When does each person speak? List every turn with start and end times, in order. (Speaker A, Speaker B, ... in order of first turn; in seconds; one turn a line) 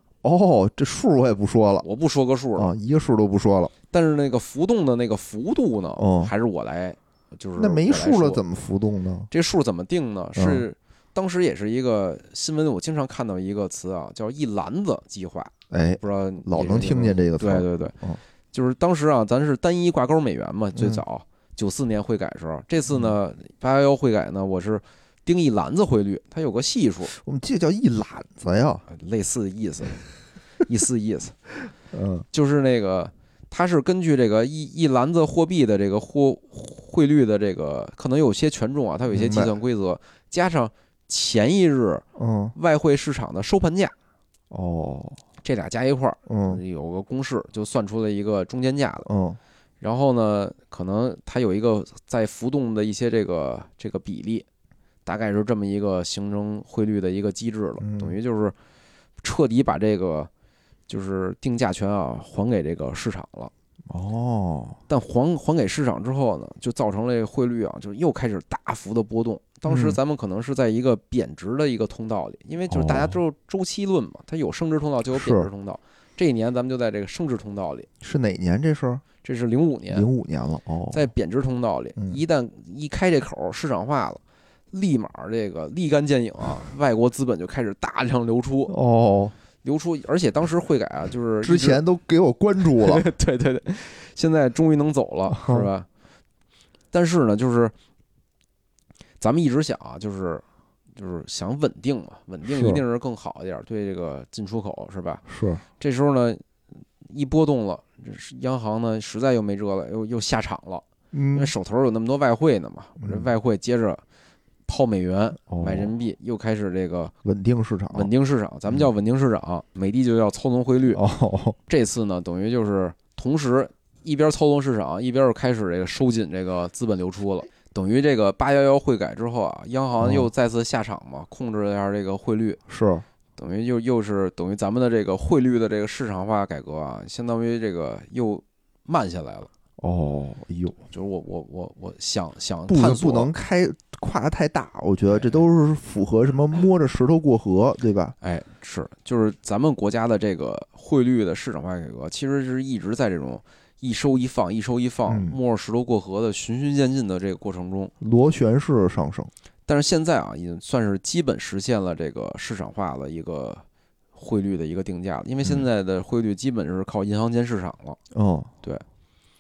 Speaker A: 0.2-1.9
Speaker B: 1.8-2.7
Speaker A: 2.6-3.7
Speaker B: 3.9-8.4
Speaker A: 6.0-6.3
Speaker A: 7.6-9.3
Speaker B: 9.3-18.0
Speaker A: 10.4-10.7
Speaker A: 15.7-18.2
Speaker B: 18.5-27.1
Speaker A: 20.8-21.0
Speaker A: 27.1-28.9
Speaker B: 28.9-30.0
Speaker B: 30.6-31.4
Speaker A: 31.9-32.3
Speaker B: 32.3-42.0
Speaker A: 39.1-39.5
Speaker A: 42.2-42.5
Speaker B: 42.5-43.9
Speaker A: 44.5-45.2
Speaker B: 45.4-49.1
Speaker A: 46.3-46.6
Speaker A: 49.1-49.4
Speaker B: 49.8-54.5
Speaker B: 55.1-58.5
Speaker A: 57.8-58.2
Speaker B: 59.2-60.3
Speaker B: 60.9-63.5
Speaker A: 63.9-64.8
Speaker B: 64.9-77.9
Speaker A: 69.7-70.0
Speaker A: 72.7-73.2
Speaker A: 75.1-75.5
Speaker A: 78.0-79.0
Speaker B: 79.2-80.1
Speaker A: 79.9-81.1
Speaker B: 80.9-84.2
Speaker B: 84.7-88.7
Speaker A: 88.7-89.3
Speaker B: 89.6-91.8
Speaker A: 91.4-93.0
Speaker B: 92.7-95.9
Speaker A: 95.3-95.7
Speaker B: 96.9-97.7
Speaker B: 99.2-100.4
Speaker B: 101.0-105.2
Speaker A: 102.5-102.8
Speaker A: 105.3-105.6
Speaker B: 105.8-106.4
Speaker B: 107.0-114.0
Speaker A: 111.1-111.5
Speaker A: 113.0-113.3
Speaker B: 114.7-117.1
Speaker A: 115.5-115.9
Speaker A: 117.2-118.1
Speaker B: 117.9-121.0
Speaker A: 120.9-121.6
Speaker B: 121.7-132.6
Speaker A: 130.0-130.3
Speaker A: 132.7-133.1
Speaker B: 133.4-139.5
Speaker A: 139.8-140.8
Speaker B: 140.9-143.3
Speaker A: 142.7-148.2
Speaker B: 145.1-145.5
Speaker B: 148.2-157.9
Speaker A: 155.1-155.4
Speaker A: 158.0-159.3
Speaker B: 159.7-163.6
Speaker B: 164.2-168.0
Speaker A: 168.1-168.5